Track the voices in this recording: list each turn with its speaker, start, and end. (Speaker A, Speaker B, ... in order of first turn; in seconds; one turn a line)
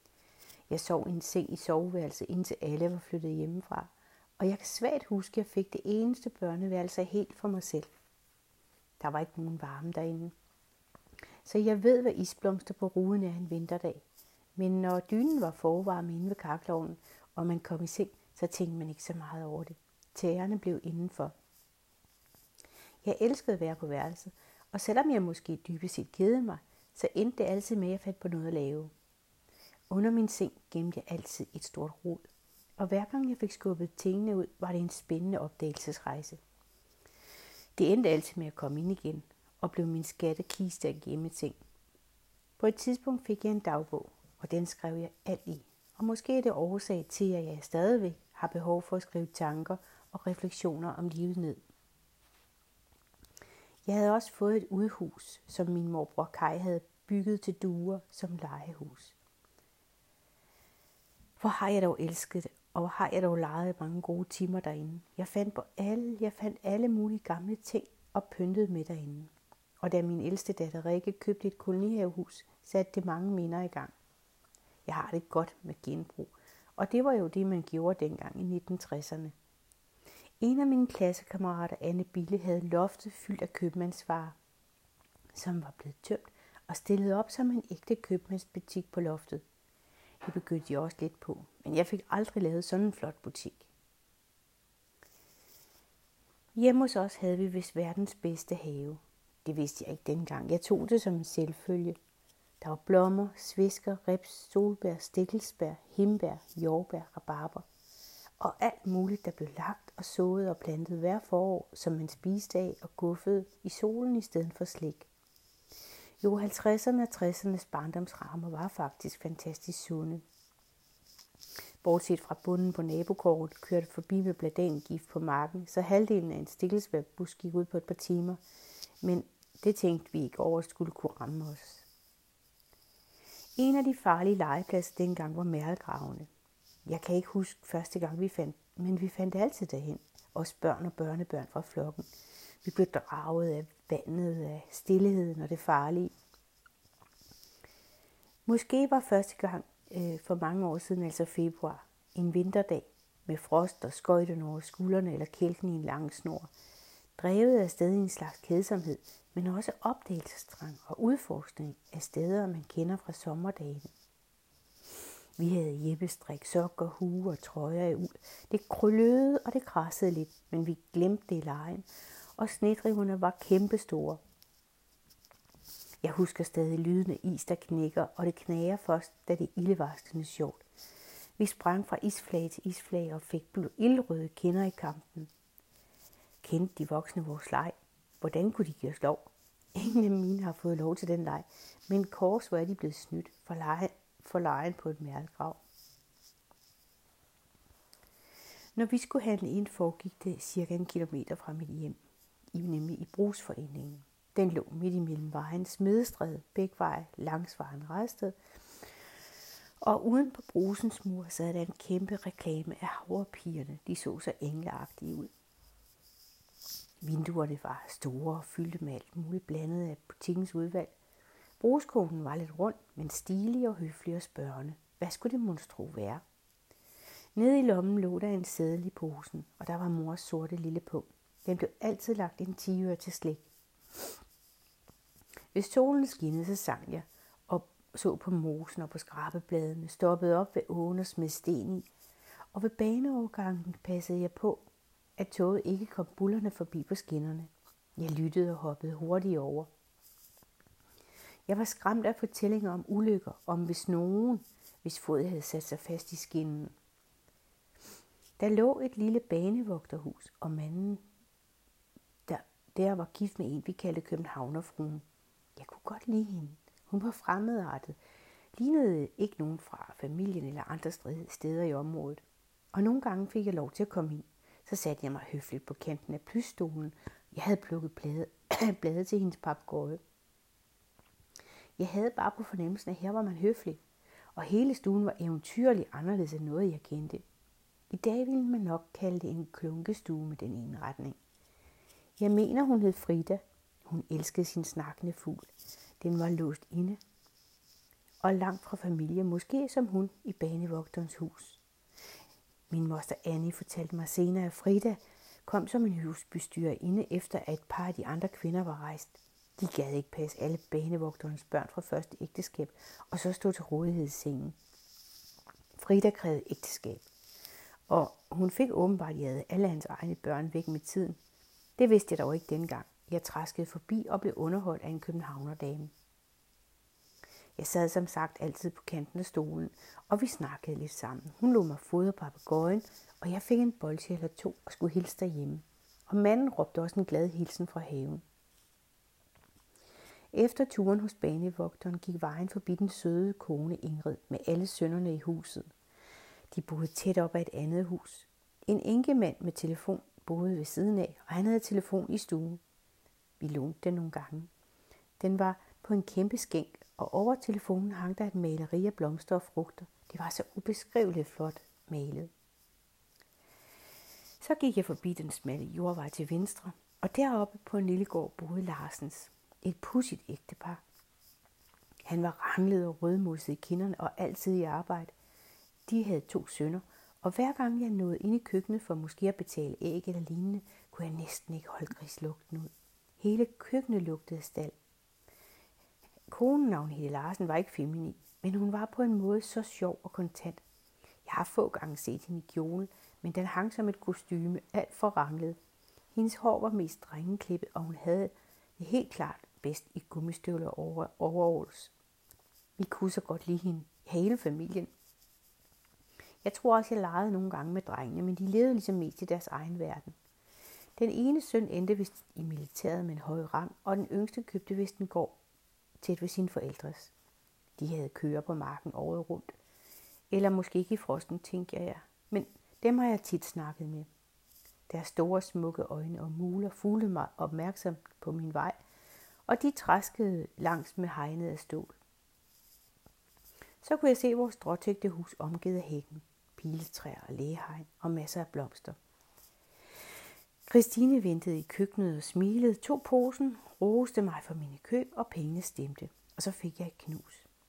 Speaker A: 0.7-7.9
Speaker A: 9.0-10.3
Speaker A: 11.4-14.1
Speaker A: 14.6-21.3
Speaker A: 23.0-28.9
Speaker A: 29.9-32.2
Speaker A: 32.8-36.4
Speaker A: 37.8-41.6
Speaker A: 42.6-51.6
Speaker A: 53.9-59.2
Speaker A: 61.4-73.9
Speaker A: 74.9-79.3
Speaker A: 80.4-84.4
Speaker A: 85.3-89.4
Speaker A: 90.2-93.7
Speaker A: 96.6-102.0
Speaker A: 102.6-107.7
Speaker A: 108.4-115.1
Speaker A: 116.2-120.2
Speaker A: 121.8-128.4
Speaker A: 129.0-131.9
Speaker A: 133.6-136.3
Speaker A: 136.9-142.1
Speaker A: 142.6-146.1
Speaker A: 148.5-156.5
Speaker A: 157.2-163.9
Speaker A: 165.4-171.9
Speaker A: 172.4-174.2
Speaker A: 176.0-180.7
Speaker A: 181.4-185.3
Speaker A: 186.4-195.6
Speaker A: 198.8-202.0
Speaker A: 202.5-208.4
Speaker A: 209.8-215.3
Speaker A: 217.0-220.9
Speaker A: 221.6-226.2
Speaker A: 227.4-233.5
Speaker A: 235.5-241.9
Speaker A: 242.5-244.7
Speaker A: 245.2-249.7
Speaker A: 251.5-256.7
Speaker A: 258.4-261.0
Speaker A: 262.3-265.1
Speaker A: 265.6-268.0
Speaker A: 268.6-280.0
Speaker A: 281.8-283.8
Speaker A: 284.4-287.2
Speaker A: 287.9-291.2
Speaker A: 292.2-297.0
Speaker A: 298.2-301.6
Speaker A: 302.7-314.6
Speaker A: 315.8-317.1
Speaker A: 317.9-321.2
Speaker A: 321.8-325.9
Speaker A: 327.6-338.2
Speaker A: 340.3-345.7
Speaker A: 346.5-352.6
Speaker A: 353.4-354.5
Speaker A: 355.2-362.3
Speaker A: 364.4-370.8
Speaker A: 372.1-375.1
Speaker A: 375.9-384.8
Speaker A: 386.3-390.6
Speaker A: 391.2-395.6
Speaker A: 396.1-401.9
Speaker A: 402.8-404.9
Speaker A: 406.4-410.1
Speaker A: 411.0-415.4
Speaker A: 416.0-417.1
Speaker A: 417.8-419.6
Speaker A: 420.3-424.1
Speaker A: 424.9-428.8
Speaker A: 429.5-432.0
Speaker A: 433.8-439.0
Speaker A: 440.7-447.5